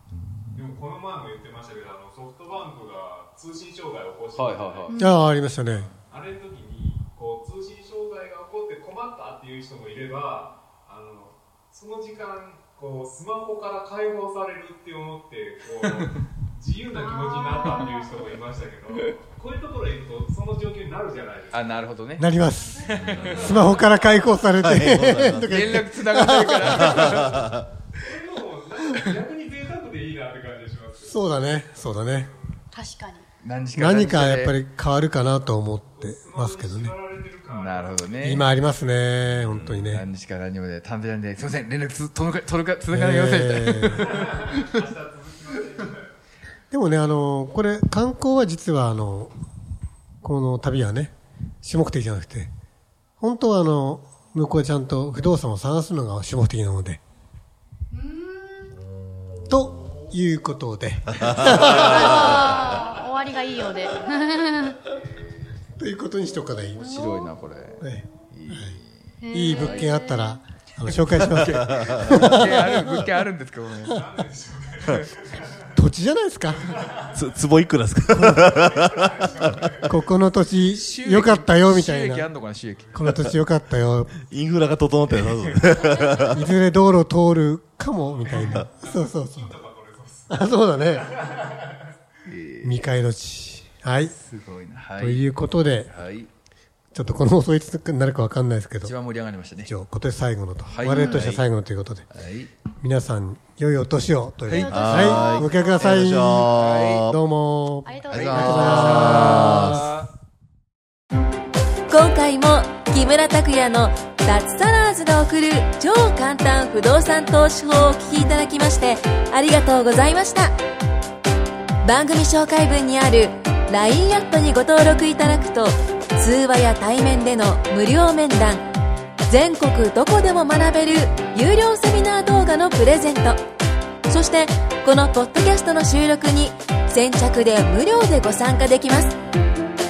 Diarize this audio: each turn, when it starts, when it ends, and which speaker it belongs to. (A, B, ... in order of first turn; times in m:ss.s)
0:00.1-0:00.6 A
0:00.5-0:04.9 B
0:04.3-0:05.0 C
0:04.9-0:05.2 D
0:05.0-0:05.9 E
0:06.1-0:21.8 B
0:17.0-0:18.2 D
0:21.5-0:23.8 C
0:22.2-0:27.2 E
0:22.4-0:22.8 D
0:22.9-0:23.7 A
0:24.5-0:25.7 A
0:25.4-0:27.5 C
0:26.6-0:27.6 A
0:28.0-0:31.2 B
0:31.0-0:32.3 E
0:31.9-0:32.4 B
0:32.7-0:33.2 D
0:33.4-0:34.6 C
0:33.7-0:36.9 E
0:36.0-0:38.1 B
0:37.5-0:38.4 C
0:38.2-0:40.0 E
0:39.2-0:40.0 A
0:39.9-0:44.8 C
0:42.9-0:44.1 E
0:44.0-0:46.0 B
0:46.7-0:49.3 E
0:50.2-0:52.5 E
0:53.2-0:57.0 E
0:57.9-0:58.8 D
0:59.3-0:59.5 A
0:59.5-1:02.4 E
1:01.2-1:04.8 D
1:02.1-1:02.8 A
1:05.8-1:07.1 E
1:06.7-1:10.0 C
1:06.8-1:07.2 D
1:07.8-1:08.8 E
1:09.2-1:10.4 D
1:09.3-1:13.0 E
1:10.8-1:14.0 C
1:11.8-1:12.2 A
1:13.8-1:15.6 B
1:15.7-1:16.8 E
1:16.7-1:17.2 B
1:17.1-1:19.8 A
1:18.1-1:18.6 E
1:18.5-1:19.9 B
1:19.8-1:22.3 E
1:20.7-1:23.0 C
1:22.9-1:24.2 E
1:24.3-1:26.5 A
1:25.0-1:25.6 C
1:26.2-1:29.6 E
1:28.3-1:30.3 B
1:28.4-1:28.6 A
1:30.3-1:31.2 E
1:32.2-1:32.8 C
1:32.6-1:34.1 E
1:34.1-1:35.3 C
1:35.0-1:35.9 E
1:35.9-1:36.3 C
1:36.9-1:38.9 E
1:38.8-1:39.7 C
1:39.6-1:42.0 E
1:40.6-1:41.1 C
1:40.8-1:41.4 D
1:41.0-1:41.4 A
1:42.1-1:42.5 C
1:42.8-1:49.9 E
1:44.5-1:45.4 C
1:44.6-1:47.2 A
1:44.7-1:46.0 D
1:46.5-1:47.1 C
1:47.8-1:48.2 D
1:48.1-1:50.1 C
1:48.1-1:49.8 A
1:51.9-2:00.5 F
2:01.8-2:08.6 F
2:09.3-2:13.4 F
2:14.1-2:19.1 F